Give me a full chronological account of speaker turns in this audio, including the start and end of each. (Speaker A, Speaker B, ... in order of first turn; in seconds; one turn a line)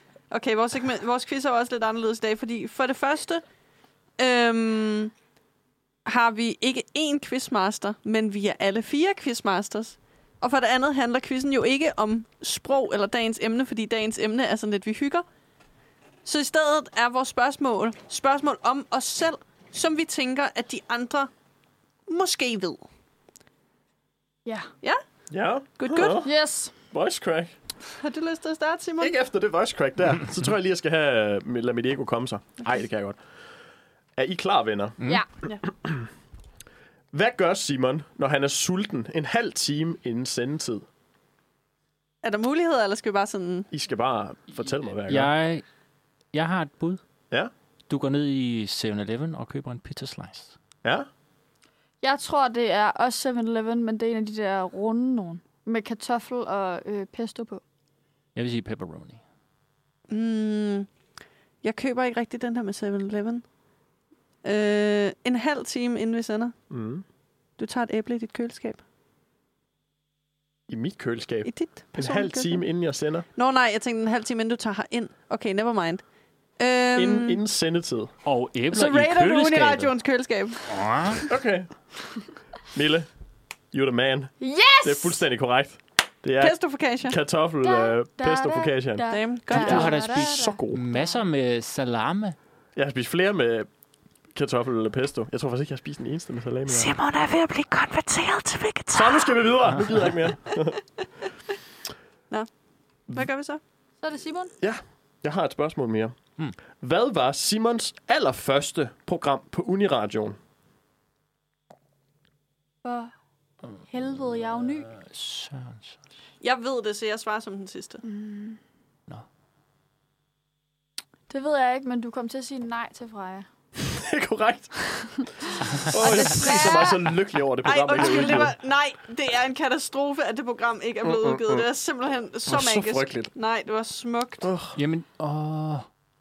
Speaker A: 0.3-3.4
Speaker A: 4.2-5.1
Speaker A: 6.0-15.2
Speaker A: 16.2-21.3
Speaker A: 22.1-22.8
Speaker B: 24.4-24.7
Speaker C: 25.3-26.3
Speaker A: 25.8-26.2
Speaker B: 26.2-26.7
Speaker C: 26.9-27.5
Speaker A: 28.0-29.1
Speaker C: 29.0-33.2
Speaker C: 34.1-35.0
Speaker C: 35.6-36.0
Speaker C: 37.1-40.8
Speaker A: 42.2-43.7
Speaker C: 43.7-45.3
Speaker D: 45.1-45.6
Speaker D: 46.3-47.0
Speaker D: 47.9-50.5
Speaker B: 52.0-57.6
Speaker D: 58.3-59.2
Speaker A: 60.1-60.9
Speaker A: 61.6-63.4
Speaker A: 64.4-66.5
Speaker C: 66.7-67.0
Speaker A: 67.6-68.8
Speaker C: 70.7-73.2
Speaker A: 71.5-72.6
Speaker A: 73.3-76.0
Speaker A: 76.6-77.4
Speaker C: 76.9-78.1
Speaker D: 78.2-79.9
Speaker A: 78.7-81.2
Speaker D: 80.7-81.2
Speaker C: 81.3-81.7
Speaker C: 82.7-83.1
Speaker C: 83.7-90.8
Speaker B: 84.4-85.2
Speaker A: 86.4-87.2
Speaker B: 87.6-91.2
Speaker A: 89.1-89.9
Speaker D: 89.5-92.3
Speaker C: 92.8-93.7
Speaker C: 94.3-96.9
Speaker A: 96.7-99.4
Speaker C: 98.9-100.8
Speaker D: 99.7-100.0
Speaker A: 103.1-103.6
Speaker B: 104.0-104.5
Speaker C: 104.6-106.1
Speaker C: 106.8-110.4
Speaker B: 112.8-113.1
Speaker B: 113.8-114.9
Speaker D: 114.9-116.0
Speaker A: 116.4-118.0
Speaker B: 118.0-118.6
Speaker B: 121.3-123.5
Speaker C: 123.8-125.1
Speaker C: 125.8-128.6
Speaker B: 125.9-127.0
Speaker A: 127.6-134.5
Speaker C: 131.0-131.7
Speaker C: 132.5-133.3
Speaker C: 134.4-134.8
Speaker D: 134.7-135.9